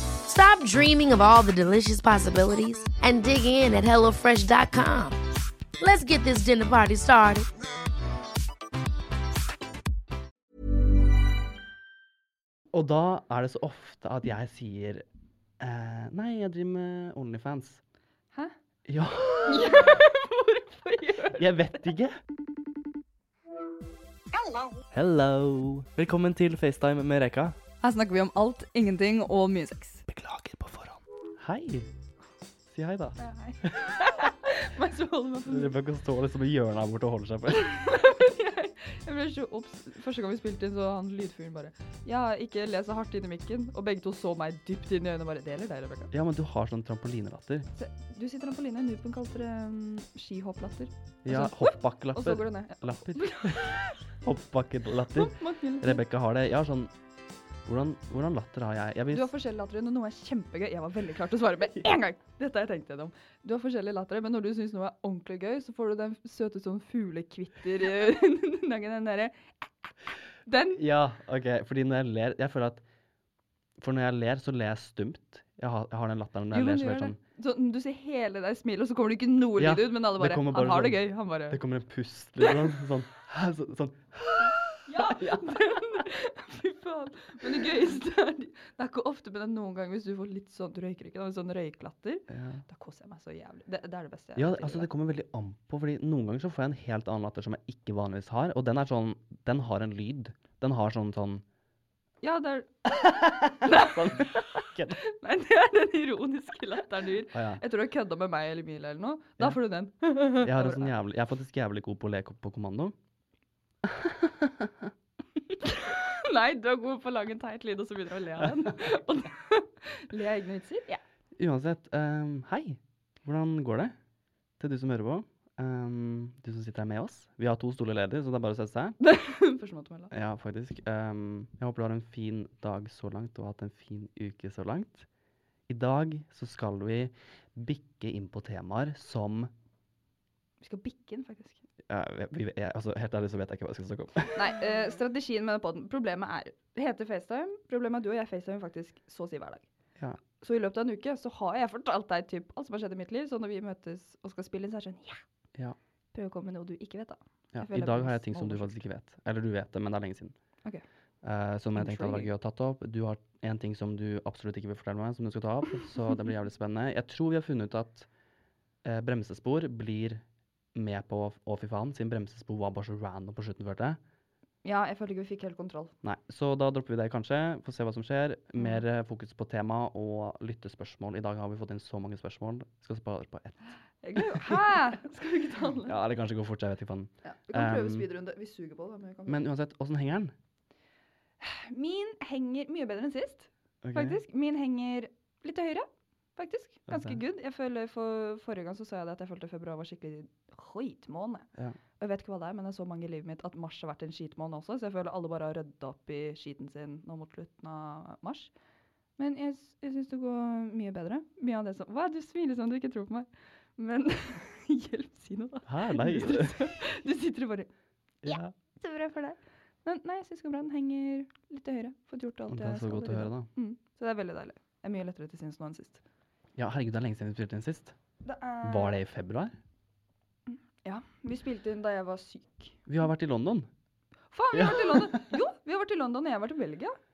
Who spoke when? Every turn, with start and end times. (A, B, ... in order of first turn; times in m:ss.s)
0:00.2-0:05.2 A
0:05.8-0:07.4 A
0:12.7-0:15.0 B
0:15.6-0:17.8 B
0:18.8-0:20.0 B
0:19.4-0:21.8 C
0:21.4-0:22.2 B
0:24.9-0:27.6 B
0:27.8-0:30.0 C
0:30.1-0:31.9 B
0:32.7-0:33.9 B
0:33.2-0:35.7 C
0:35.4-0:37.7 B
0:37.5-0:46.1 C
0:46.1-0:47.7 B
0:47.7-0:53.9 C
0:51.2-0:56.9 B
0:55.1-0:56.0 C
0:57.6-0:59.3 B
0:59.1-1:10.8 C
1:10.7-1:12.8 B
1:13.8-1:17.2 B
1:16.5-1:21.6 C
1:19.6-1:25.8 B
1:22.4-1:22.7 C
1:24.8-1:34.9 C
1:32.3-1:32.6 B
1:34.4-1:41.4 B
1:42.2-1:50.9 C
1:43.2-1:45.0 B
1:47.3-1:47.6 B
1:50.4-1:52.9 B
1:53.8-1:54.9 B
1:55.6-2:01.0 C
1:58.4-1:58.7 B
2:01.4-2:03.9 B
2:04.6-2:09.0 B
2:09.0-2:10.1 C
2:10.1-2:15.1 B
2:15.7-2:19.5 B
2:20.6-2:21.6 C
2:21.9-2:24.5 B
2:24.3-2:29.7 C
2:30.4-2:35.2 C
2:36.1-2:38.8 C
2:37.5-2:40.3 B
2:41.2-2:48.1 B
2:41.8-2:42.3 C
2:48.8-2:50.2 B
2:50.7-2:54.0 B
2:54.6-2:55.9 C
2:56.0-3:04.8 B
2:58.6-2:58.8 C
3:04.0-3:06.0 C
3:05.8-3:08.1 B
3:07.2-3:09.4 C
3:09.3-3:10.3 B
3:11.4-3:21.5 C
3:13.8-3:14.2 B
3:16.9-3:17.2 B
3:22.0-3:28.5 C
3:29.2-3:37.7 C
3:35.7-3:36.6 B
3:38.2-3:38.5 B
3:38.2-3:46.0 C
3:42.5-3:43.5 B
3:46.6-3:47.9 B
3:48.2-3:49.0 C
3:48.6-3:49.6 B
3:50.5-3:52.9 C
3:52.9-3:53.7 B
3:54.3-3:57.0 C
3:54.5-3:55.2 B